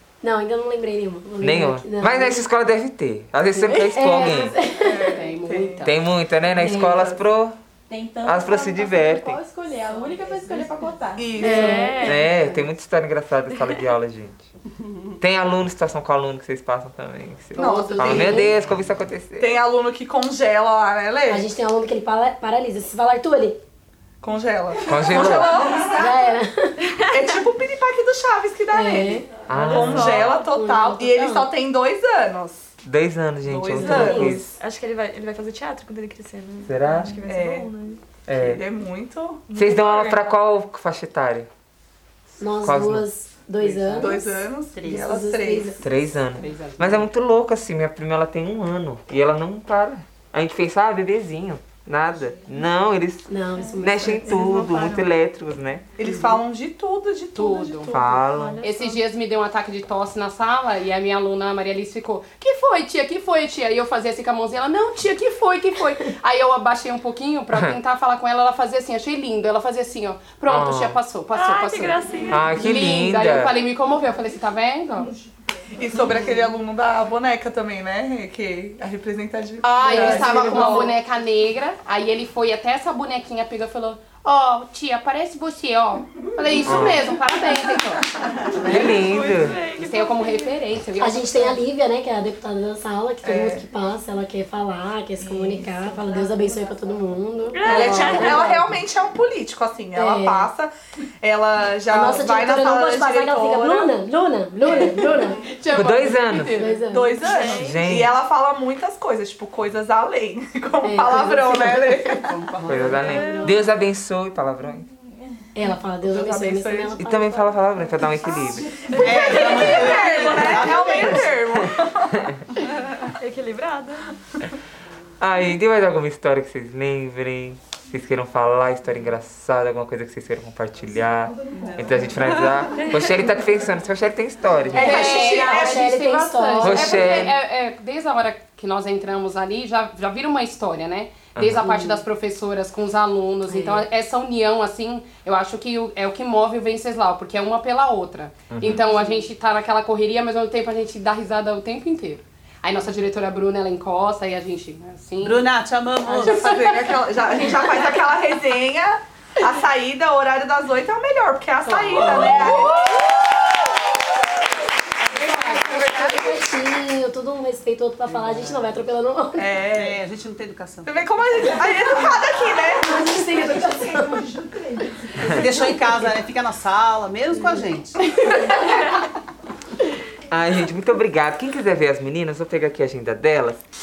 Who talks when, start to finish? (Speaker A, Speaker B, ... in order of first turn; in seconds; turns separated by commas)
Speaker A: 0.2-2.5, Speaker B: 1.4-4.6, Speaker C: 3.5-3.9, Speaker A: 3.9-5.1, Speaker D: 4.8-5.8, Speaker C: 5.0-6.0, Speaker B: 5.8-7.6, Speaker A: 6.6-7.1, Speaker D: 6.8-7.1, Speaker E: 7.9-11.3, Speaker B: 8.2-9.4, Speaker A: 9.3-12.6, Speaker D: 11.2-12.0, Speaker F: 11.4-12.2, Speaker B: 12.0-14.5, Speaker B: 15.2-19.6, Speaker D: 17.6-18.5, Speaker A: 17.6-18.6, Speaker C: 17.6-18.1, Speaker D: 19.4-21.5, Speaker A: 21.3-23.6, Speaker D: 24.2-26.4, Speaker B: 24.9-25.6, Speaker A: 25.8-26.8, Speaker D: 27.1-32.6, Speaker A: 28.7-29.3, Speaker B: 29.5-30.3, Speaker A: 30.0-31.5, Speaker B: 32.8-34.5, Speaker D: 33.4-34.3, Speaker A: 33.8-34.5, Speaker F: 34.6-38.0, Speaker B: 36.6-37.2, Speaker D: 37.2-37.7, Speaker B: 38.3-38.6, Speaker D: 38.3-39.5, Speaker F: 39.5-40.3, Speaker B: 39.5-41.5, Speaker A: 42.4-44.2, Speaker B: 42.6-43.1, Speaker D: 43.7-45.8, Speaker G: 44.7-45.1, Speaker A: 44.9-45.8, Speaker B: 45.8-55.8, Speaker G: 46.4-47.1, Speaker A: 53.3-54.5, Speaker G: 54.2-55.1, Speaker D: 56.0-58.3, Speaker C: 57.4-58.0, Speaker B: 57.9-58.6, Speaker F: 58.3-59.0, Speaker C: 58.6-75.2, Speaker B: 67.5-67.8, Speaker B: 70.5-71.0, Speaker F: 71.3-72.6, Speaker B: 72.3-73.5, Speaker D: 75.8-81.0, Speaker C: 79.6-89.0, Speaker A: 79.8-80.9, Speaker B: 86.7-87.1, Speaker B: 88.6-89.6, Speaker F: 88.8-90.5, Speaker C: 89.7-91.6, Speaker A: 91.0-98.8, Speaker D: 93.2-93.6, Speaker D: 95.3-95.6, Speaker F: 97.5-98.4, Speaker D: 97.6-104.0, Speaker A: 100.0-100.5, Speaker A: 101.9-105.4, Speaker C: 104.7-106.8, Speaker B: 105.7-106.6, Speaker A: 106.5-107.3, Speaker D: 106.8-112.3, Speaker F: 107.2-107.9, Speaker B: 107.5-108.2, Speaker A: 110.8-112.2, Speaker G: 112.2-113.6, Speaker B: 112.7-114.9, Speaker F: 113.0-113.5, Speaker A: 115.5-117.6, Speaker D: 115.9-117.0, Speaker B: 117.0-119.3, Speaker G: 118.9-121.3, Speaker F: 119.1-120.6, Speaker D: 119.1-122.2, Speaker B: 121.1-122.3, Speaker F: 122.6-124.2, Speaker B: 125.2-135.2, Speaker A: 134.7-137.1, Speaker D: 134.7-137.3, Speaker C: 134.8-135.9, Speaker C: 136.6-155.5, Speaker B: 136.6-137.4, Speaker A: 141.6-142.1, Speaker A: 143.5-143.9, Speaker B: 148.5-148.8, Speaker G: 155.2-156.8, Speaker D: 156.1-163.2, Speaker C: 161.8-162.7, Speaker A: 162.0-162.5, Speaker A: 165.2-169.5, Speaker C: 165.2-166.3, Speaker G: 165.8-166.2, Speaker D: 169.4-170.0, Speaker G: 169.7-170.9, Speaker D: 170.8-174.6, Speaker A: 172.8-174.3, Speaker G: 175.2-178.0, Speaker B: 180.3-183.6